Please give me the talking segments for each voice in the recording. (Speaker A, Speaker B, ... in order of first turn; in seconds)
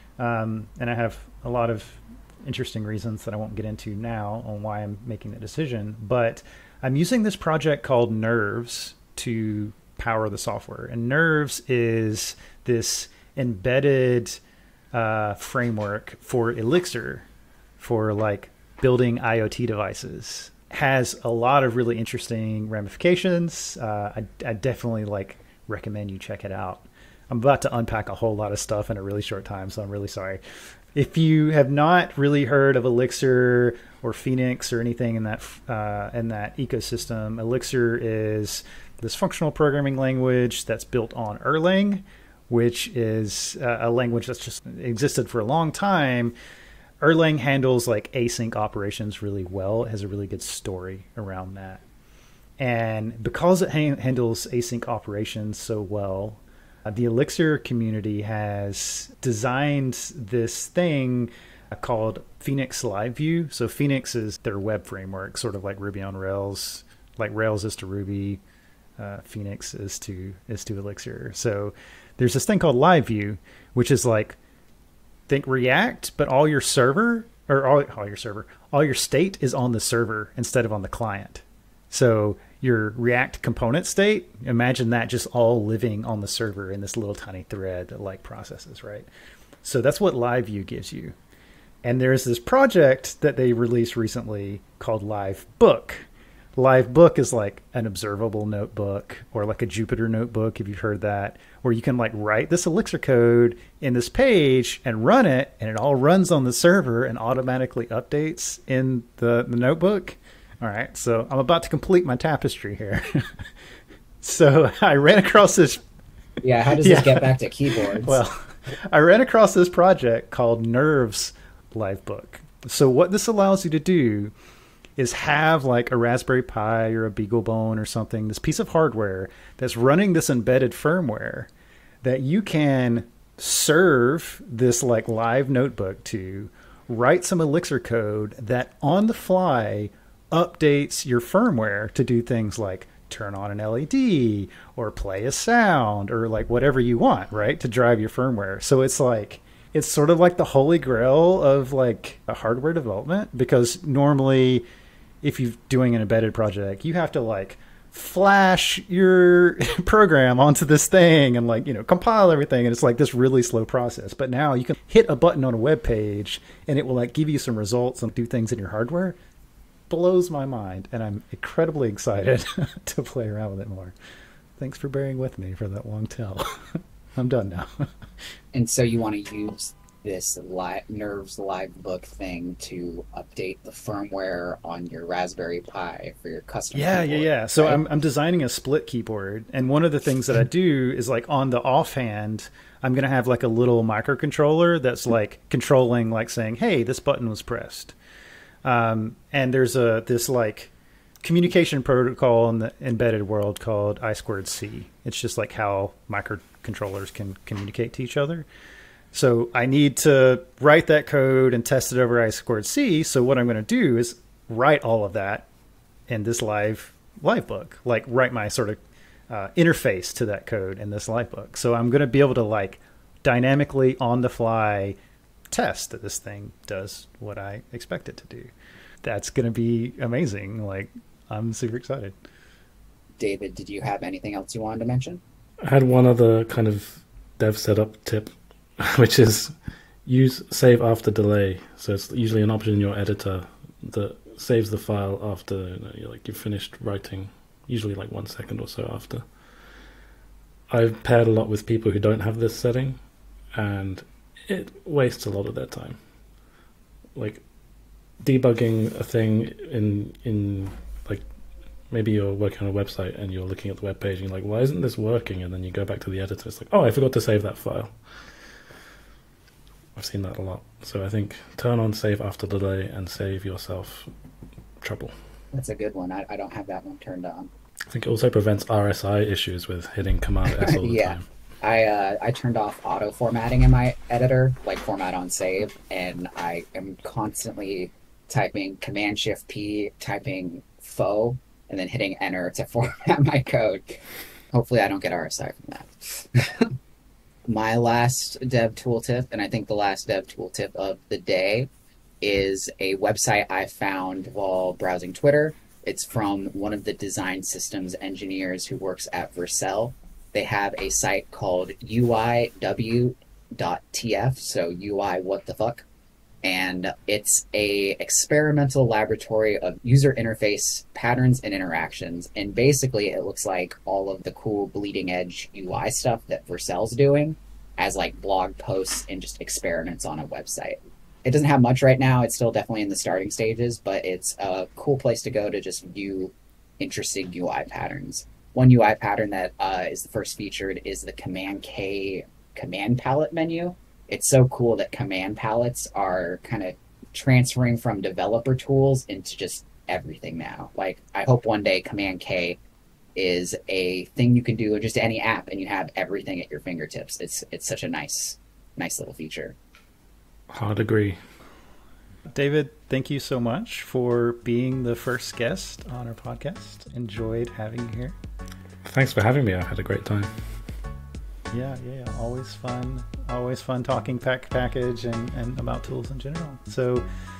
Speaker A: 0.2-14.4, 14.9-17.3, 17.8-30.4, 30.9-46.3, 47.0-51.8, 52.6-68.4, 69.0-74.4, 75.3-89.1, 89.6-91.2, 91.8-113.5, 114.2-115.8, 116.8-124.3, 125.0-131.5, 132.0-154.6, 155.2-169.2, 169.9-173.9, 174.6-177.9, 186.7-197.9, 198.6-200.7, 201.2-208.4, 209.1-215.5, 216.1-225.0, 225.5-228.5, 229.0-232.1, 362.3-368.1, 371.5-377.1
Speaker B: 116.4-118.2, 178.5-187.8, 233.2-235.2, 275.5-277.5, 280.5-296.7, 297.5-301.7, 302.2-315.9, 316.4-352.6, 353.1-359.6
Speaker C: 235.6-239.5, 240.1-249.2, 250.7-253.0, 253.5-256.0, 257.1-257.4, 258.2-261.2, 261.9-267.9, 269.9-274.1, 274.8-275.1, 277.9-281.2, 360.5-361.2, 368.8-370.3